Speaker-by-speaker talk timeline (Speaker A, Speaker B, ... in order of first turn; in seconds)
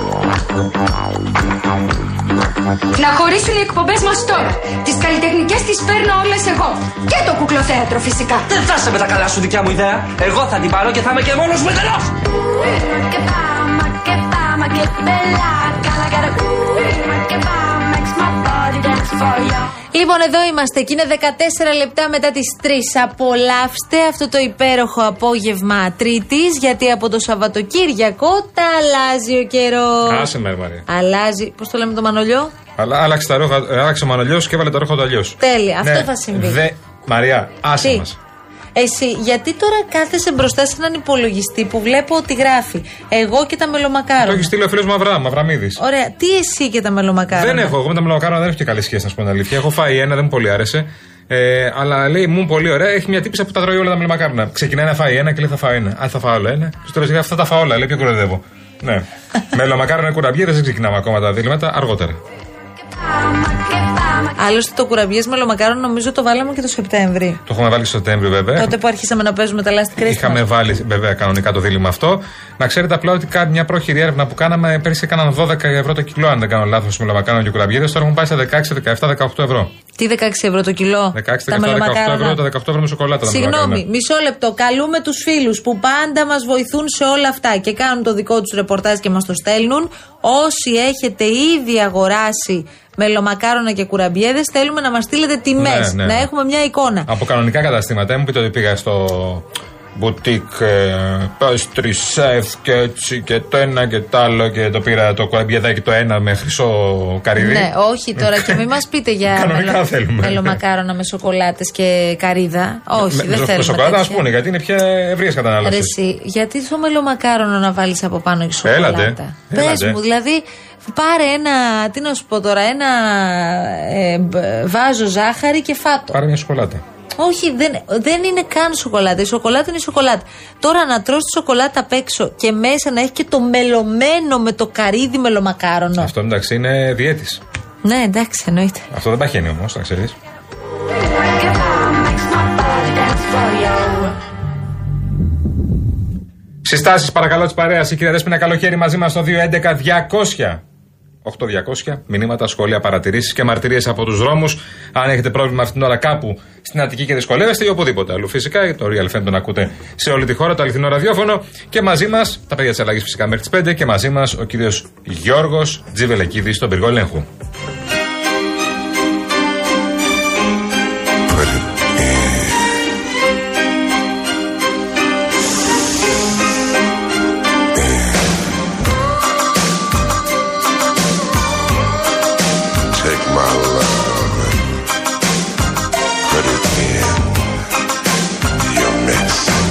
Speaker A: 3.0-8.4, 12.7-19.7, 141.4-144.2
Speaker B: 8.5-12.0
Speaker C: 19.9-30.3, 30.9-32.5, 35.4-36.6, 37.8-38.0, 38.8-44.5, 45.8-47.7, 64.3-67.4, 68.6-70.4, 80.0-82.4, 83.2-97.1, 107.3-114.2, 115.6-126.2, 127.2-136.1, 137.8-138.8
Speaker D: 30.1-30.8, 32.8-38.2, 44.2-45.8, 47.3-62.2, 67.5-68.8, 70.0-79.7, 81.1-83.8, 95.6-96.3, 97.1-108.6, 109.3-110.6, 112.9-115.9, 118.7-120.0, 126.1-126.8, 136.0-137.4, 138.9-140.2, 146.7-150.6, 151.2-167.2
Speaker E: 182.9-184.5, 186.3-187.3, 188.7-189.5